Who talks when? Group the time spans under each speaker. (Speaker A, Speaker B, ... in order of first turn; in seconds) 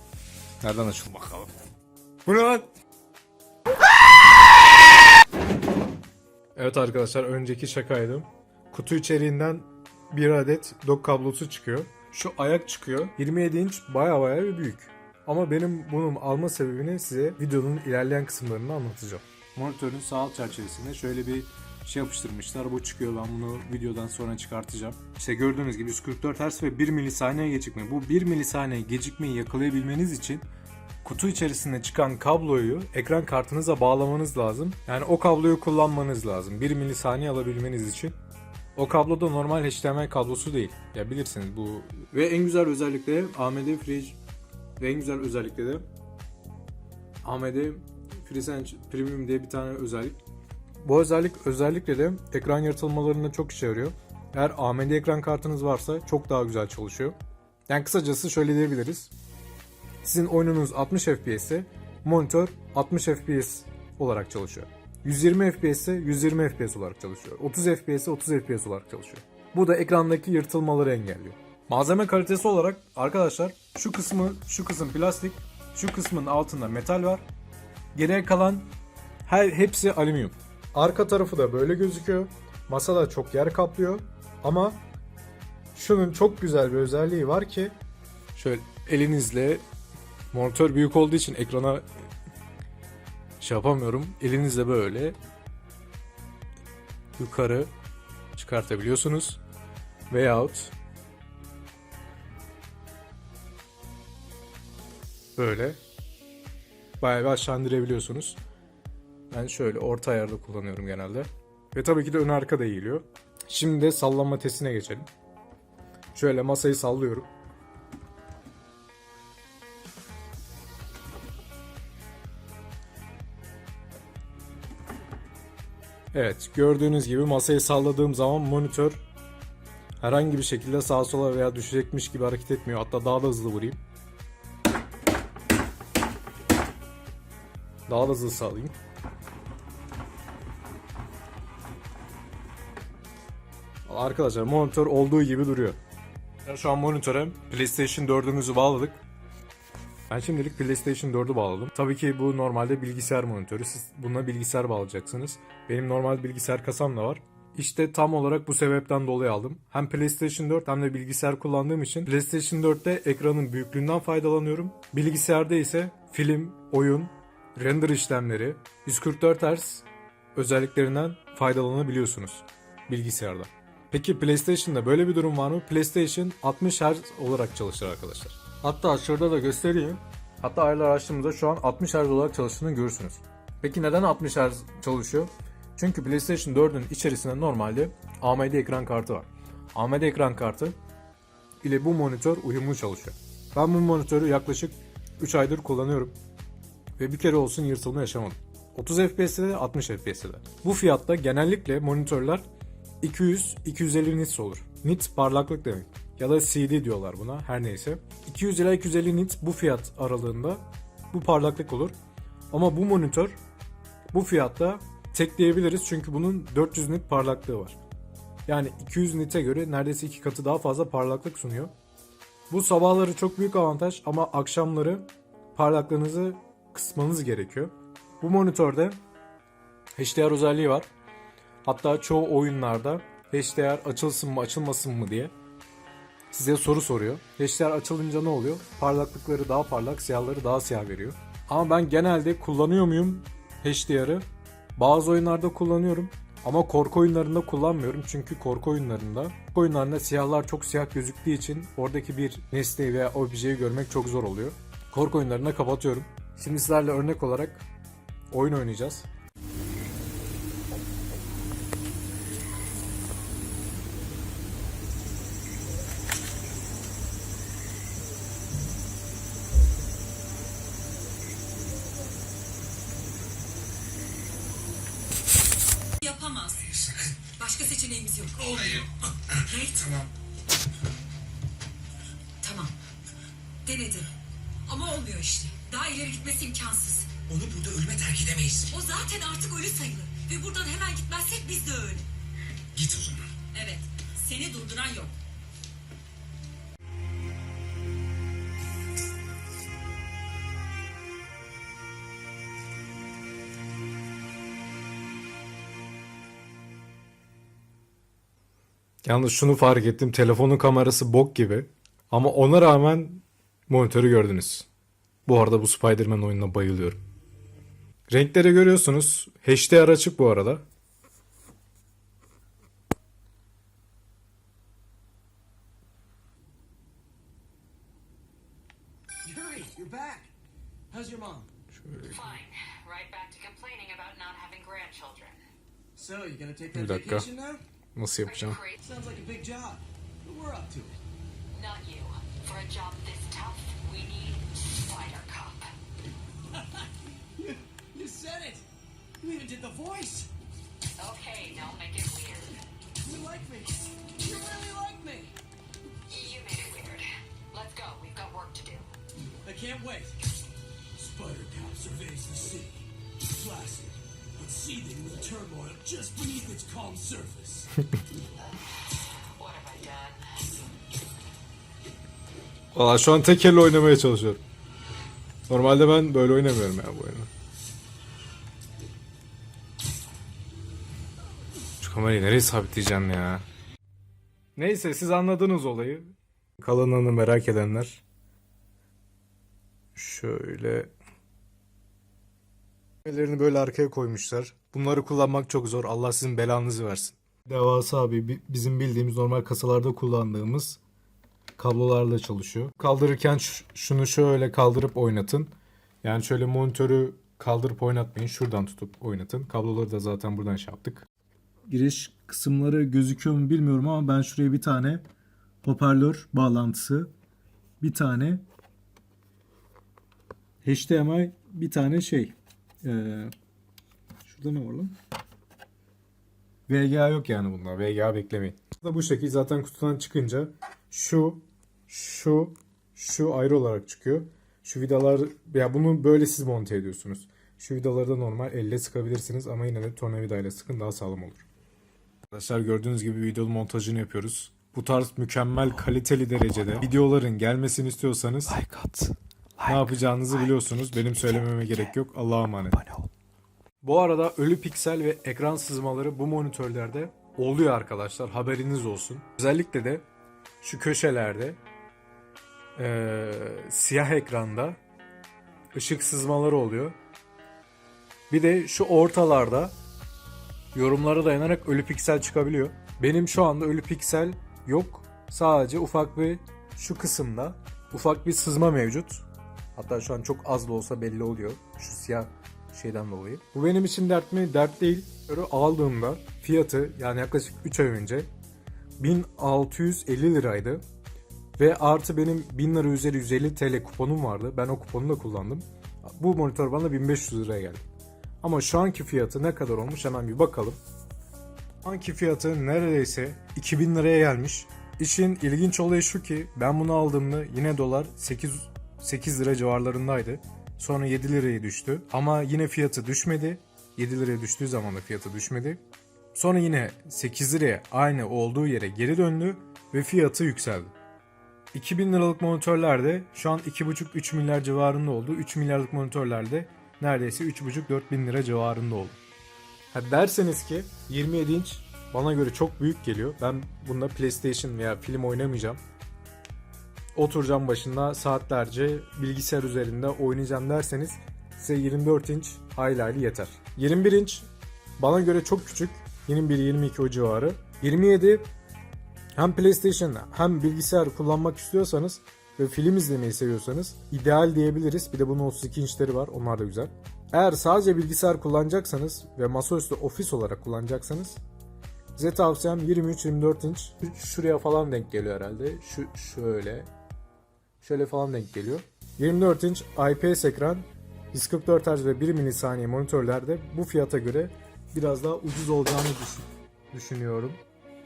Speaker A: 0.6-1.5, 2.2-2.7, 6.5-30.4, 31.0-38.2, 38.8-44.2, 44.8-45.8, 47.2-50.2, 50.8-57.1, 57.7-59.1, 60.0-77.2, 77.9-78.7, 79.2-84.8, 85.7-87.8, 88.3-89.6, 90.3-91.8, 93.4-95.2, 97.2-97.7, 98.3-99.4, 100.1-100.7, 105.3-105.8, 107.0-108.4, 109.3-115.1, 116.1-117.3, 126.1-129.0, 130.0-133.8, 137.9-138.7, 143.8-145.8, 146.4-149.0, 150.1-190.7, 191.6-196.1, 197.0-202.4, 203.0-211.9, 212.5-213.3, 214.1-217.8, 218.4-221.7, 222.5-229.0, 229.9-230.9, 231.6-235.3, 236.3-244.2, 244.8-257.6, 258.3-259.1, 309.0-314.7, 315.2-317.0, 318.1-320.6, 331.7-332.2, 336.7-337.3, 337.9-338.6, 372.7-374.4, 375.5-377.3, 381.8-383.4, 384.6-386.1, 386.6-388.0, 389.9-390.9, 393.0-400.8, 401.6-405.5, 406.0-411.1, 411.7-415.0, 415.6-417.1, 417.8-418.4, 420.6-423.3, 424.2-424.9, 426.7-441.4, 442.3-448.7, 449.6-452.9, 453.8-460.0, 460.6-461.6, 462.8-464.8, 465.7-466.9, 468.3-469.7, 470.7-479.2, 479.7-488.3, 489.0-490.8, 491.6-497.8, 498.4-500.8, 501.8-515.8, 516.3-520.9, 521.7-529.2, 529.9-535.8, 537.1-548.5, 549.3-561.4, 562.1-566.9, 567.8-577.6
Speaker B: 276.0-278.9, 279.4-280.0, 282.4-282.8, 283.6-284.1, 284.6-287.2, 288.7-292.1, 293.5-295.1
Speaker C: 278.6-279.4, 287.3-288.7, 292.7-293.4
Speaker D: 329.2-330.3, 330.9-331.5, 335.9-337.6, 338.8-341.0, 346.5-348.6, 349.2-350.3, 353.0-355.4, 359.4-360.2, 360.9-367.7
Speaker E: 332.0-335.4, 338.2-338.8, 341.5-345.7, 351.0-352.6, 356.1-358.9, 369.4-370.4